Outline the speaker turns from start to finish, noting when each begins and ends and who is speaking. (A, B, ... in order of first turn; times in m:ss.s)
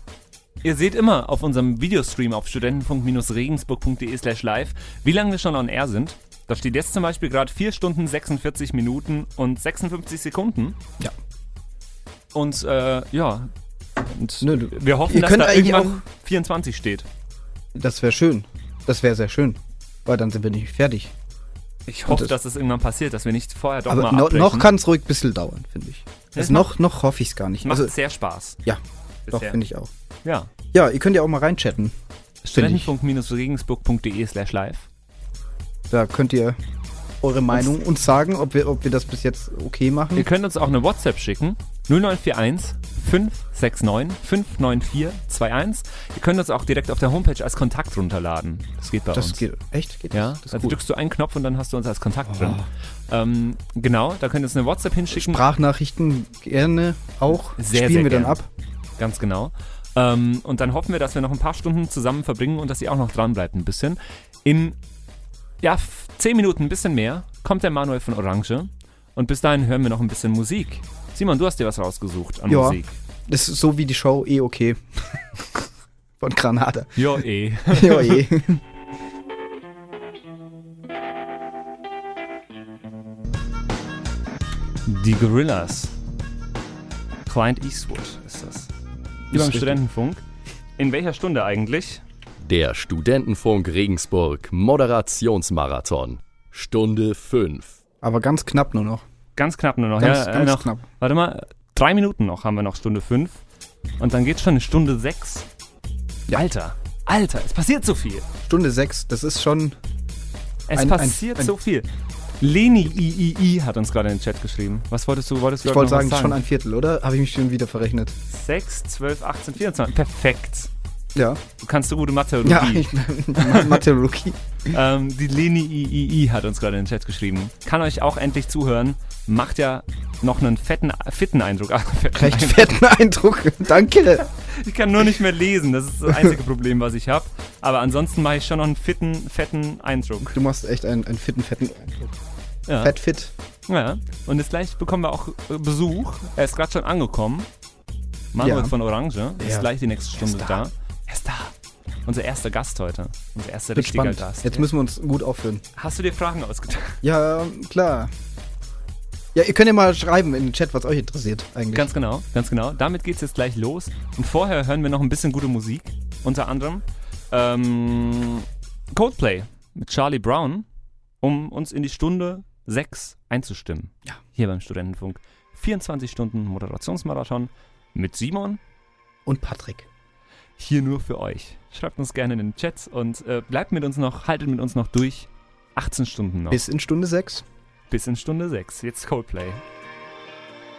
0:00.6-0:10.8 A
0:12.3-0:13.5 A
0:14.0-0:17.1 A
0:14.4-0:16.0 B
0:17.8-0:21.1 B
0:21.9-0:24.7 A
0:22.1-0:22.4 B
0:23.9-0:27.9 B
0:26.3-0:26.7 A
0:27.6-0:28.6 A
0:28.6-0:29.9 B
0:29.3-0:29.6 A
0:30.2-0:30.5 A
0:30.7-0:32.0 B
0:32.4-0:34.9 A
0:32.5-0:32.9 B
0:35.9-0:36.6 B
0:37.2-0:40.3 B
0:40.2-0:49.4 A
0:49.1-0:50.8 B
0:50.1-0:55.4 A
0:52.3-0:52.7 B
0:55.1-0:58.5 B
0:57.6-0:58.4 A
0:59.0-1:04.8 A
1:05.6-1:13.0 A
1:12.5-1:15.7 B
1:16.2-1:17.1 B
1:17.0-1:18.2 A
1:17.7-1:18.6 B
1:24.9-1:25.9 A
1:27.3-1:28.7 A
1:29.3-1:29.8 B
1:29.3-1:30.2 A
1:30.8-1:32.0 A
1:32.4-1:37.8 C
1:38.0-1:39.0 B
1:39.4-1:43.4 A
1:40.0-1:40.8 B
1:44.0-1:45.5 A
1:46.3-1:48.3 A
1:48.4-1:49.8 B
1:50.7-1:51.9 A
1:50.7-1:51.5 B
1:52.4-1:56.4 A
1:55.6-1:58.2 B
1:58.3-2:00.7 A
2:01.2-2:01.4 B
2:01.6-2:03.8 A
2:02.4-2:04.8 B
2:04.7-2:12.8 A
2:12.2-2:14.3 B
2:14.3-2:20.4 A
2:16.1-2:16.4 B
2:20.3-2:22.2 B
2:22.7-2:23.0 A
2:22.8-2:23.3 B
2:23.7-2:27.5 A
2:28.3-2:31.6 A
2:28.4-2:28.8 B
2:29.4-2:30.6 B
2:32.1-2:34.7 A
2:33.8-2:35.6 B
2:35.8-2:37.0 A
2:37.0-2:38.1 B
2:39.3-2:41.9 B
2:41.8-2:50.7 A
2:51.2-2:58.6 A
2:59.3-2:59.9 B
3:00.6-3:06.6 A
3:06.5-3:07.4 B
3:07.9-3:09.6 A